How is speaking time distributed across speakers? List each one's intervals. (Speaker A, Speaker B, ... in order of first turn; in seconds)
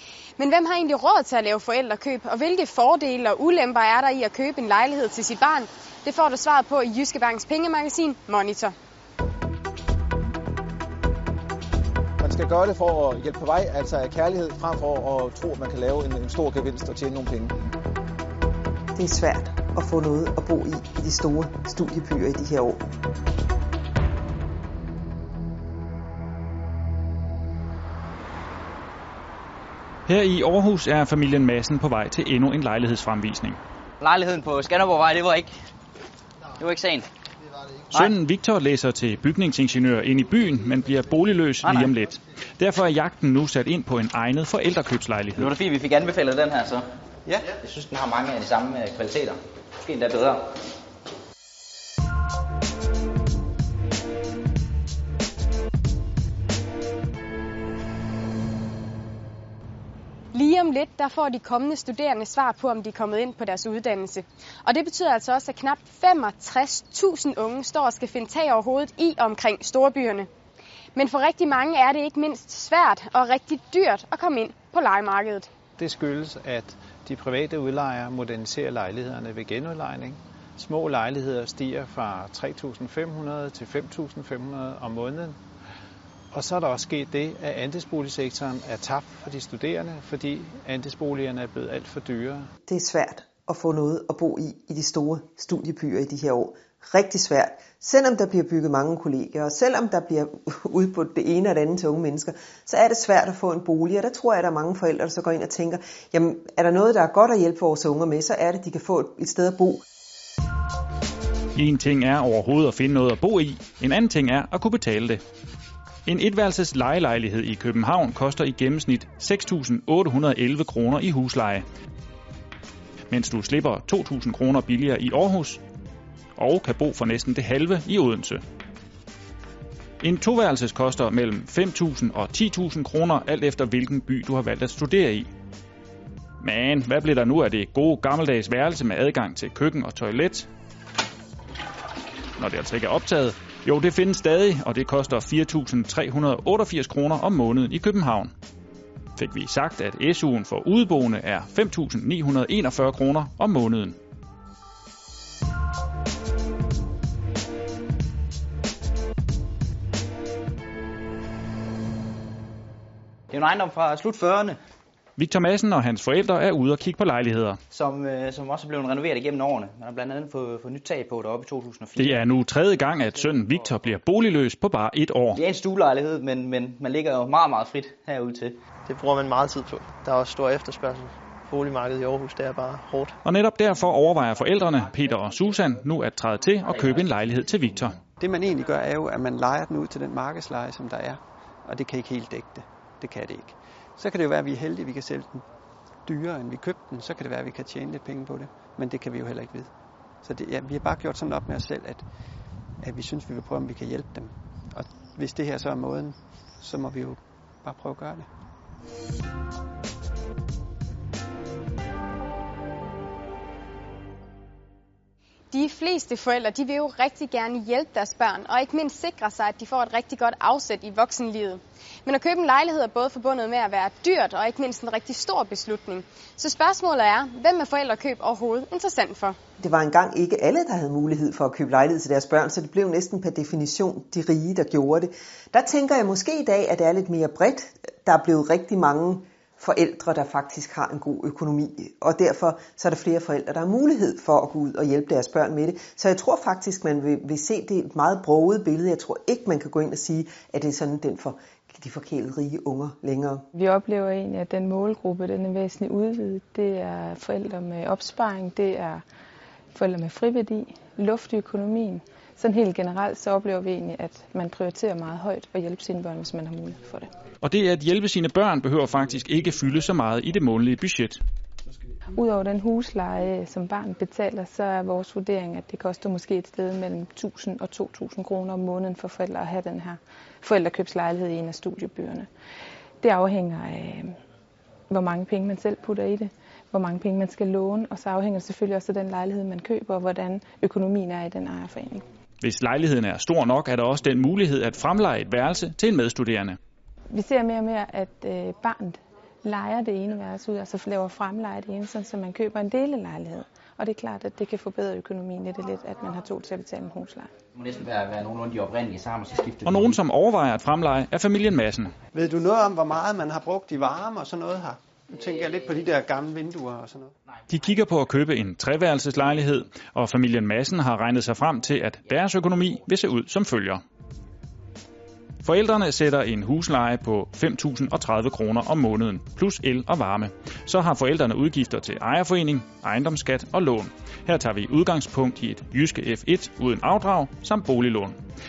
Speaker A: 0.4-8.7, 60.3-70.3, 71.0-75.5, 215.5-229.4
Speaker B: 12.2-17.5
Speaker C: 18.9-22.8, 92.7-109.8, 229.6-253.4
Speaker D: 30.1-33.6, 37.9-45.5, 111.6-115.2, 116.1-121.6, 123.1-125.6, 126.4-128.4, 130.0-135.3, 136.4-140.5, 142.4-148.3, 149.2-154.0, 165.2-167.6, 172.0-175.4, 183.2-188.0, 267.4-271.2, 292.4-296.6, 309.6-311.9, 317.5-323.8, 325.4-338.2
Speaker E: 34.0-35.5, 36.6-37.1, 41.6-41.9, 45.4-46.9, 47.6-50.5, 163.3-164.6, 167.7-172.2, 175.3-178.6, 307.6-310.0
Speaker F: 47.3-47.5, 188.2-195.4, 196.1-199.7, 200.2-202.1, 202.8-208.3, 312.1-317.1
Speaker G: 75.8-85.4, 86.3-92.5
Speaker H: 178.9-183.2
Speaker I: 253.5-259.0, 259.7-267.1, 272.1-282.3, 283.0-284.2, 284.9-292.0, 297.1-307.3